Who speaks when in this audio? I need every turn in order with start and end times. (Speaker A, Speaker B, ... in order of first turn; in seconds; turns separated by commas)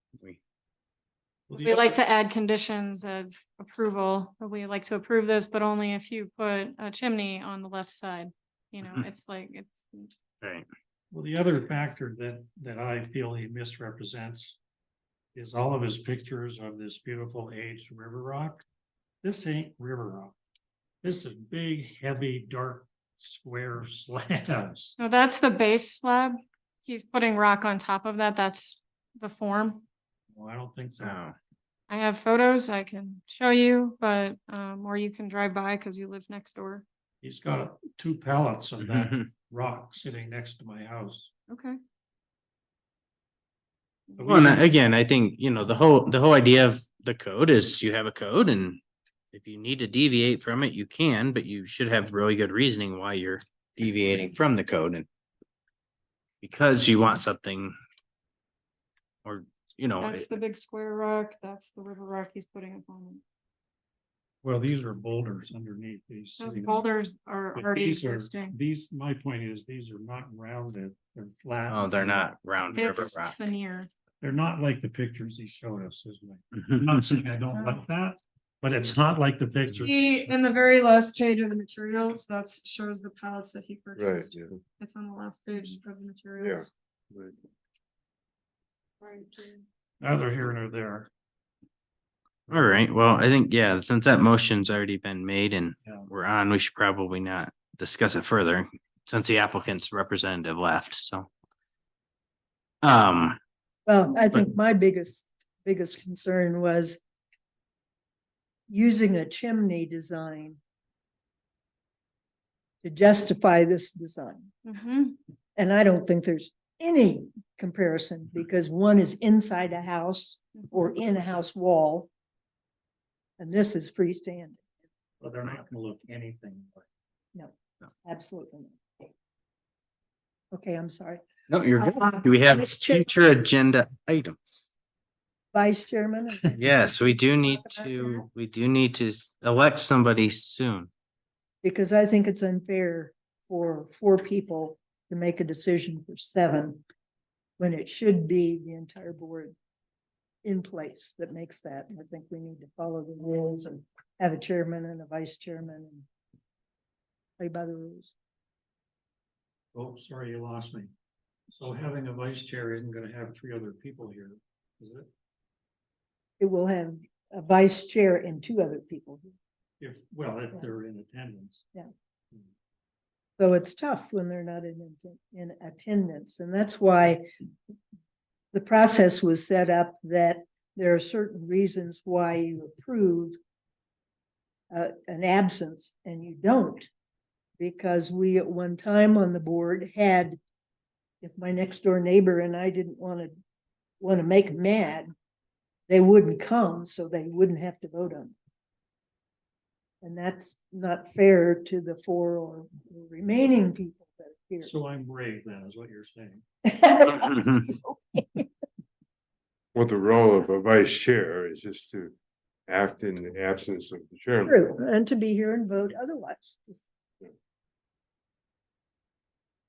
Speaker A: 1.5-2.0, Speaker B: 1.6-10.1, Speaker A: 11.1-14.6, Speaker A: 15.3-18.6, Speaker A: 19.2-20.4, Speaker A: 21.0-24.9, Speaker B: 25.0-29.8, Speaker A: 30.3-31.2, Speaker C: 31.0-31.4, Speaker B: 31.9-36.9, Speaker A: 37.2-41.3, Speaker C: 38.8-39.2, Speaker B: 41.5-41.8, Speaker B: 44.1-44.5, Speaker A: 44.2-44.6, Speaker C: 44.3-48.8, Speaker C: 49.3-55.1, Speaker C: 56.4-57.8, Speaker C: 59.2-60.3, Speaker B: 60.0-63.2, Speaker A: 64.4-66.9, Speaker B: 66.4-68.5, Speaker A: 67.5-72.3, Speaker C: 71.7-73.4, Speaker B: 72.7-73.9, Speaker A: 74.2-80.3, Speaker C: 76.5-76.8, Speaker B: 77.5-77.8, Speaker B: 79.8-86.7, Speaker D: 84.0-84.6, Speaker D: 86.4-87.4, Speaker B: 89.0-89.7, Speaker A: 90.0-91.1, Speaker C: 92.5-101.3, Speaker C: 102.8-103.4, Speaker E: 103.9-107.0, Speaker E: 108.7-110.6, Speaker E: 112.8-114.5, Speaker B: 114.7-115.2, Speaker E: 115.6-122.1, Speaker E: 123.4-124.6, Speaker A: 125.2-126.9, Speaker E: 127.3-128.8, Speaker E: 130.5-131.2, Speaker C: 131.5-134.7, Speaker E: 131.8-133.1, Speaker E: 135.5-136.7, Speaker C: 136.6-140.9, Speaker E: 137.4-138.2, Speaker E: 141.6-146.8, Speaker E: 147.6-149.6, Speaker E: 150.4-156.1, Speaker E: 157.4-158.1, Speaker A: 159.7-160.9, Speaker A: 161.5-165.1, Speaker E: 166.4-169.3, Speaker A: 169.8-171.7, Speaker E: 173.4-177.3, Speaker E: 178.5-183.4, Speaker E: 184.7-186.9, Speaker E: 187.6-190.4, Speaker E: 191.2-193.3, Speaker E: 194.0-195.1, Speaker E: 195.9-198.3, Speaker E: 200.0-204.7, Speaker A: 204.6-206.4, Speaker E: 206.7-208.4, Speaker C: 207.1-207.6, Speaker D: 209.8-212.1, Speaker D: 212.7-214.6, Speaker E: 214.4-216.8